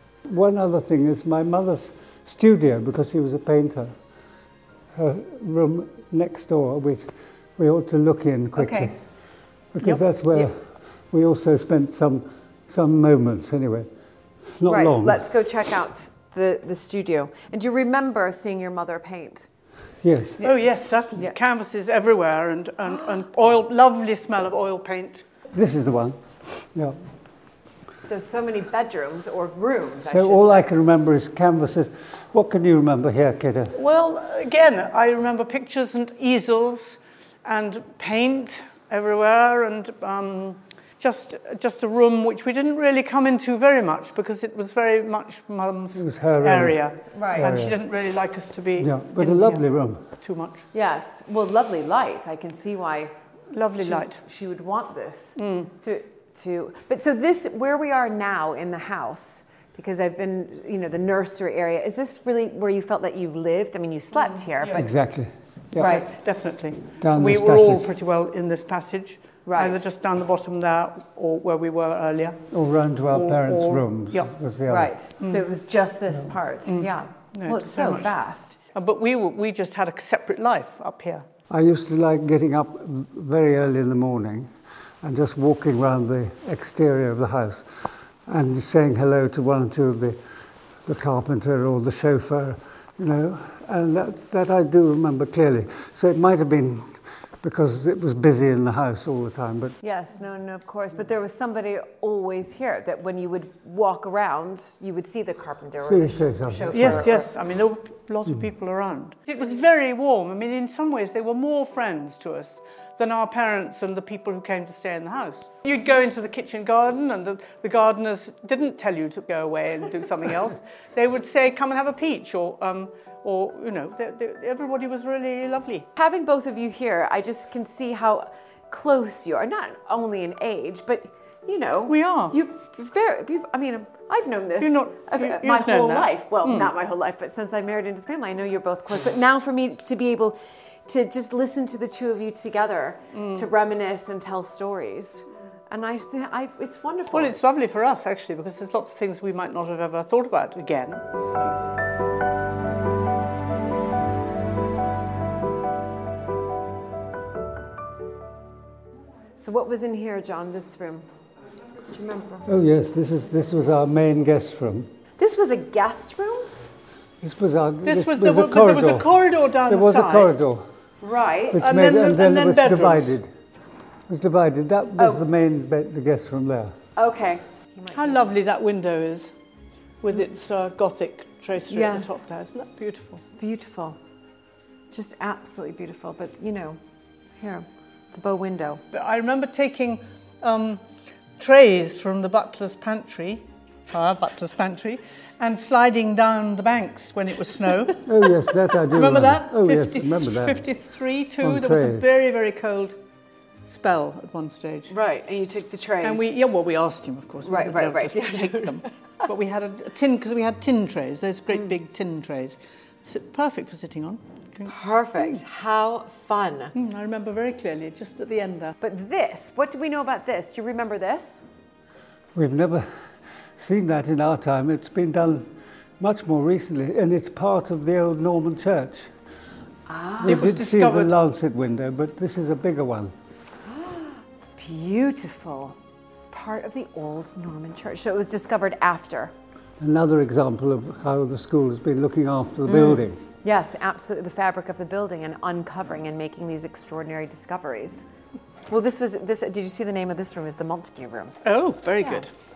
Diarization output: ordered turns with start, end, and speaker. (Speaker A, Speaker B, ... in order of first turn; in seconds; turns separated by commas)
Speaker A: 0.2-3.9, Speaker A: 4.9-8.9, Speaker B: 8.6-8.9, Speaker A: 9.7-13.9, Speaker A: 14.6-15.2, Speaker B: 14.6-19.5, Speaker A: 20.0-20.4, Speaker C: 20.4-25.2, Speaker A: 25.5-27.0, Speaker B: 28.1-30.7, Speaker A: 30.0-33.7, Speaker C: 33.7-49.6, Speaker A: 45.9-46.8, Speaker B: 47.1-47.6, Speaker A: 47.3-47.8, Speaker A: 48.8-50.1, Speaker C: 50.2-50.6, Speaker B: 50.7-53.1, Speaker C: 53.5-54.2, Speaker B: 53.8-64.9, Speaker C: 55.4-55.7, Speaker C: 64.3-64.8, Speaker A: 64.7-66.0, Speaker B: 65.8-66.2, Speaker C: 65.8-72.5, Speaker A: 67.0-67.9, Speaker B: 69.4-69.8, Speaker A: 72.5-74.9, Speaker C: 73.1-74.3, Speaker B: 74.7-78.6, Speaker C: 76.6-78.1, Speaker C: 78.7-81.2, Speaker A: 81.5-84.5, Speaker A: 85.0-87.6, Speaker A: 88.3-90.2, Speaker A: 90.8-99.7, Speaker B: 99.8-107.3, Speaker A: 105.8-107.1, Speaker C: 106.7-125.9, Speaker B: 125.9-147.5, Speaker C: 131.9-132.4, Speaker C: 134.6-136.7, Speaker C: 143.1-143.5, Speaker C: 147.1-151.7, Speaker B: 159.4-161.1, Speaker B: 161.8-162.5, Speaker A: 162.5-164.9, Speaker B: 165.2-166.5, Speaker A: 167.2-169.1, Speaker C: 167.8-170.3, Speaker A: 169.7-170.6, Speaker B: 171.0-171.6, Speaker A: 171.5-173.3, Speaker C: 171.6-173.2, Speaker A: 174.1-176.7, Speaker B: 175.0-175.2, Speaker B: 176.9-178.3, Speaker C: 177.9-179.3, Speaker C: 180.0-183.2, Speaker B: 181.7-182.2, Speaker B: 183.4-184.0, Speaker B: 184.9-186.8, Speaker B: 187.4-188.8, Speaker C: 188.9-190.8, Speaker C: 191.4-198.1, Speaker A: 198.0-200.6, Speaker C: 198.8-203.0, Speaker A: 201.4-202.1, Speaker C: 203.6-204.9, Speaker B: 204.9-206.3, Speaker C: 206.0-215.3, Speaker B: 207.4-208.8, Speaker B: 214.7-216.7, Speaker C: 216.7-218.8, Speaker B: 218.8-221.4, Speaker A: 222.3-222.8, Speaker A: 223.6-225.5, Speaker A: 226.0-229.1, Speaker B: 229.9-230.5, Speaker C: 230.2-231.2, Speaker A: 230.2-233.1, Speaker B: 233.6-239.3, Speaker A: 239.8-243.2, Speaker B: 242.7-248.0, Speaker B: 248.7-251.3, Speaker C: 251.4-252.3, Speaker B: 252.0-252.2